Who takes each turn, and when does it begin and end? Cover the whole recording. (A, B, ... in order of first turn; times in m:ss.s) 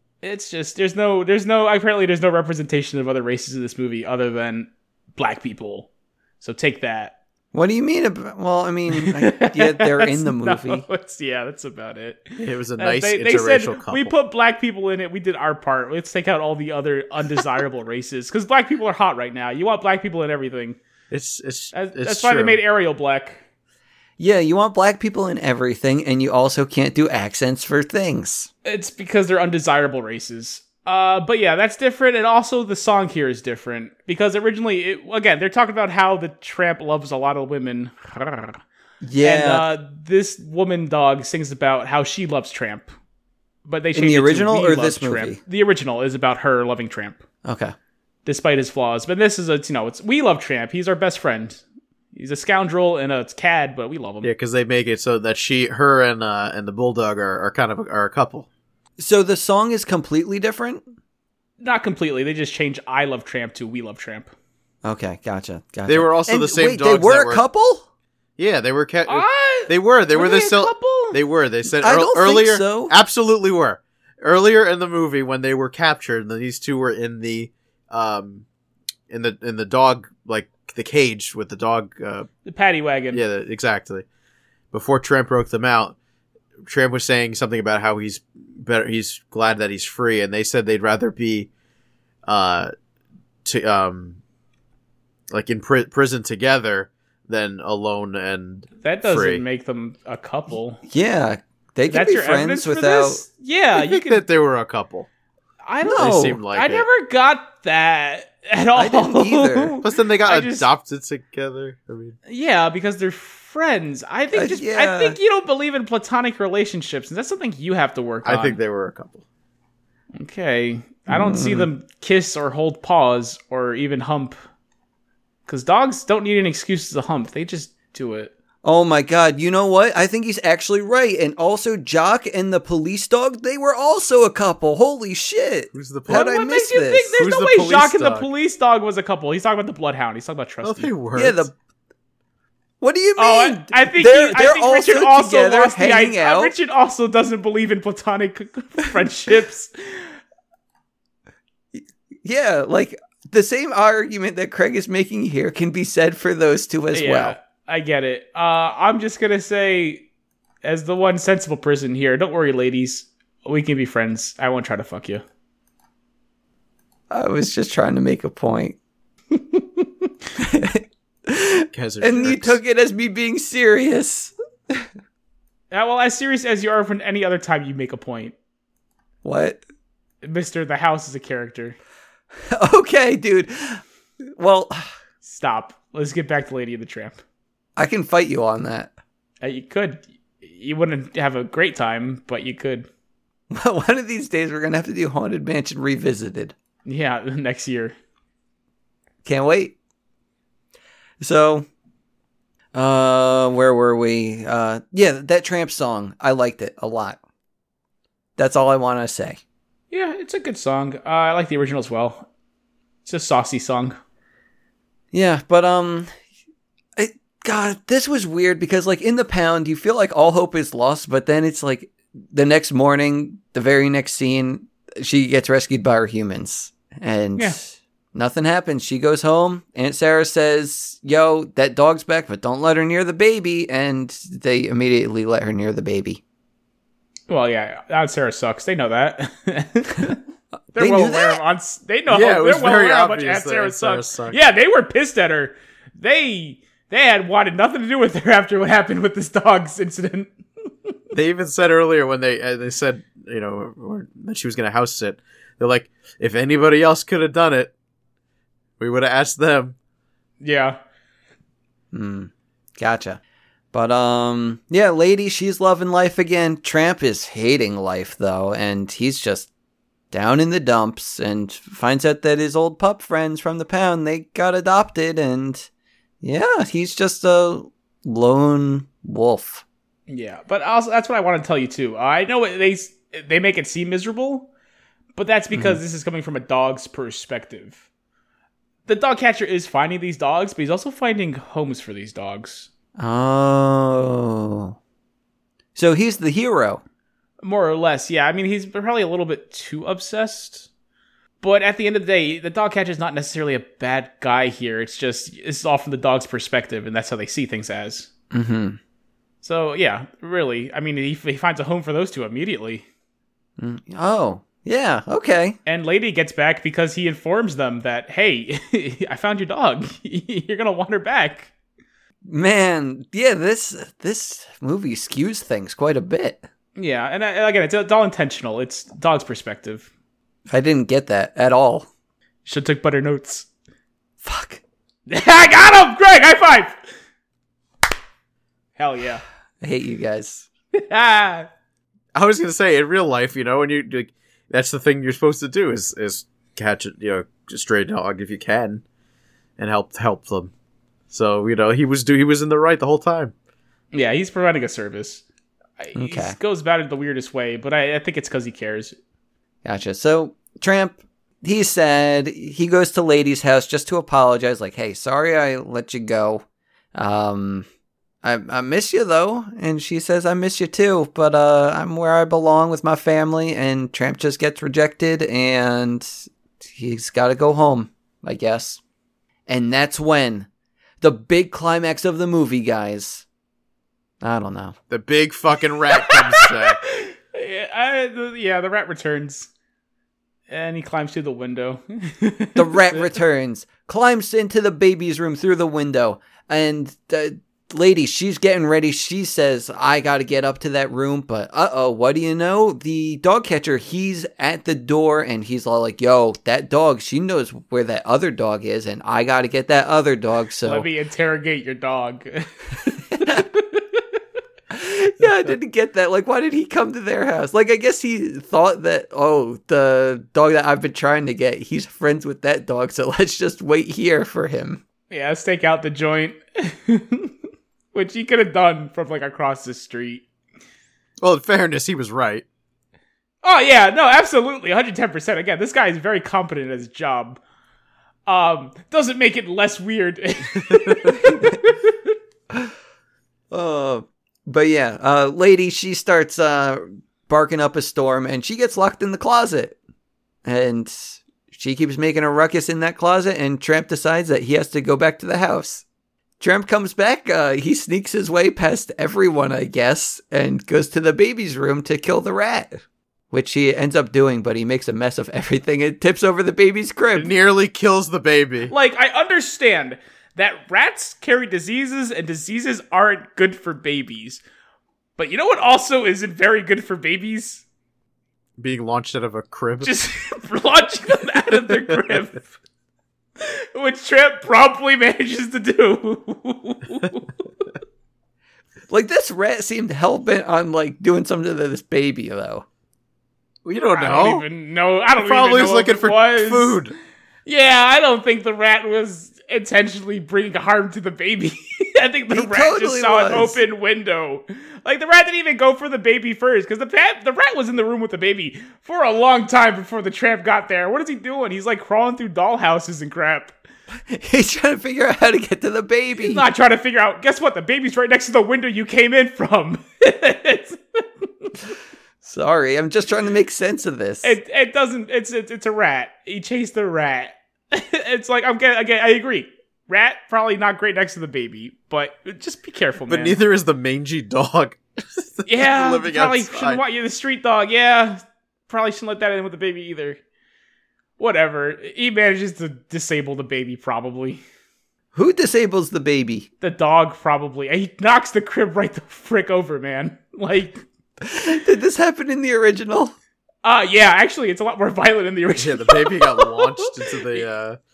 0:00.2-0:05.9 A
0:06.4-0:07.1 A
0:07.5-0:10.8 B
0:08.9-0:20.8 A
0:12.4-0:14.1 C
0:21.1-0:22.6 C
0:21.7-0:23.4 A
0:24.2-0:28.5 B
0:28.6-0:38.6 A
0:39.0-0:39.7 B
0:39.2-0:42.9 A
0:43.6-0:47.2 A
0:43.9-0:45.4 B
0:47.4-0:47.7 B
0:48.2-0:51.6 A
0:52.1-0:54.3 A
0:54.2-0:58.5 C
0:59.0-1:00.8 B
1:01.6-1:04.3 A
1:04.8-1:07.8 B
1:05.9-1:07.4 C
1:08.4-1:18.4 C
1:09.1-1:11.2 A
1:11.8-1:12.9 B
1:19.1-1:22.3 C
1:22.4-1:23.2 A
1:23.1-1:24.0 C
1:24.7-1:26.0 C
1:26.6-1:31.5 C
1:32.2-1:32.7 C
1:33.4-1:34.2 C
1:35.3-1:39.4 C
1:38.8-1:40.8 A
1:40.9-1:43.2 B
1:41.9-1:44.2 A
1:43.8-1:45.1 C
1:45.6-1:50.7 A
1:45.8-1:46.4 B
1:46.0-1:46.8 C
1:48.7-1:49.8 B
1:49.8-1:52.2 C
1:52.3-1:58.6 A
1:54.3-1:55.2 B
1:58.2-1:59.2 C
2:00.2-2:04.4 A
2:01.1-2:01.7 B
2:05.4-2:08.3 A
2:08.6-2:17.2 B
2:15.7-2:16.3 C
2:16.1-2:20.9 A
2:17.2-2:18.3 C
2:20.6-2:21.5 C
2:21.1-2:21.5 B
2:22.8-2:26.5 B
2:23.2-2:30.2 A
2:31.7-2:37.4 B
2:36.9-2:40.0 A
2:40.6-2:45.2 A
2:47.1-2:48.8 B
2:50.4-2:54.9 B
2:51.7-2:52.6 C
2:55.7-2:58.3 A
2:59.2-2:59.6 B
3:00.2-3:01.8 A
3:02.5-3:04.9 B
3:05.2-3:07.2 A
3:07.8-3:08.9 B
3:09.4-3:12.9 A
3:13.5-3:16.5 B
3:16.8-3:17.9 A
3:19.2-3:19.7 B
3:21.2-3:21.7 B
3:22.7-3:27.2 B
3:28.4-3:29.4 B
3:29.9-3:32.3 A
3:33.0-3:34.0 A
3:35.1-3:36.1 B
3:37.0-3:56.2 B
3:57.3-4:00.2 A
4:00.7-4:10.3 A
4:00.7-4:01.4 B
4:02.1-4:04.4 C
4:11.1-4:17.7 C
4:18.8-4:19.8 C
4:20.4-4:20.8 A
4:21.9-4:23.2 B
4:23.7-4:29.5 B
4:30.1-4:35.7 B
4:36.2-4:39.6 B
4:40.1-4:44.5 A
4:45.1-4:47.8 A
4:45.5-4:45.8 B
4:48.8-4:52.7 A
4:53.0-4:54.8 B
4:55.8-4:56.8 B
4:57.4-5:00.7 A
5:01.4-5:08.1 A
5:08.3-5:08.8 B
5:09.4-5:12.8 A
5:13.6-5:15.6 B
5:15.6-5:21.5 A
5:22.2-5:26.4 B
5:26.8-5:29.9 A
5:30.5-5:31.9 B
5:32.4-5:33.5 A
5:34.2-5:34.6 B
5:35.1-5:36.8 A
5:38.8-5:39.2 A
5:39.6-5:40.4 B
5:40.7-5:41.5 A
5:42.1-5:48.8 C
5:49.6-5:50.5 C
5:51.1-5:53.3 C
5:53.9-5:55.2 A
5:55.8-5:59.0 A
5:56.0-5:56.4 B
5:59.6-6:06.4 B
6:06.9-6:07.7 B
6:08.2-6:18.8 B
6:19.5-6:20.5 B
6:21.0-6:23.2 B
6:24.2-6:24.7 B
6:24.9-6:26.8 C
6:26.0-6:29.5 A
6:30.5-6:33.1 A
6:32.6-6:50.9 B
6:50.6-6:54.0 A
6:53.1-6:53.4 B
6:54.7-7:04.8 B
7:05.1-7:07.3 A
7:07.9-7:10.2 A
7:11.2-7:12.4 C
7:13.4-7:17.4 A
7:18.3-7:21.8 A
7:20.7-7:21.0 C
7:21.2-7:21.6 B
7:23.5-7:29.8 B
7:30.4-7:35.8 B
7:36.4-7:47.3 B
7:47.1-7:48.7 C
7:48.7-7:54.4 A
7:55.2-7:57.6 A
7:58.6-7:59.9 C
7:59.8-8:02.5 A
8:03.4-8:07.3 A
8:08.9-8:12.6 B
8:13.6-8:14.4 C
8:13.9-8:16.8 A
8:15.2-8:16.9 C
8:17.4-8:33.6 A
8:22.3-8:23.6 B
8:34.1-8:36.4 B
8:36.2-8:41.5 A
8:42.2-8:44.3 B
8:44.2-8:53.4 A
8:53.1-8:56.8 C
8:55.4-9:00.2 A
9:01.2-9:04.4 A
9:05.1-9:06.5 B
9:06.6-9:10.8 A
9:11.2-9:13.1 B
9:13.6-9:17.4 A
9:15.6-9:17.8 C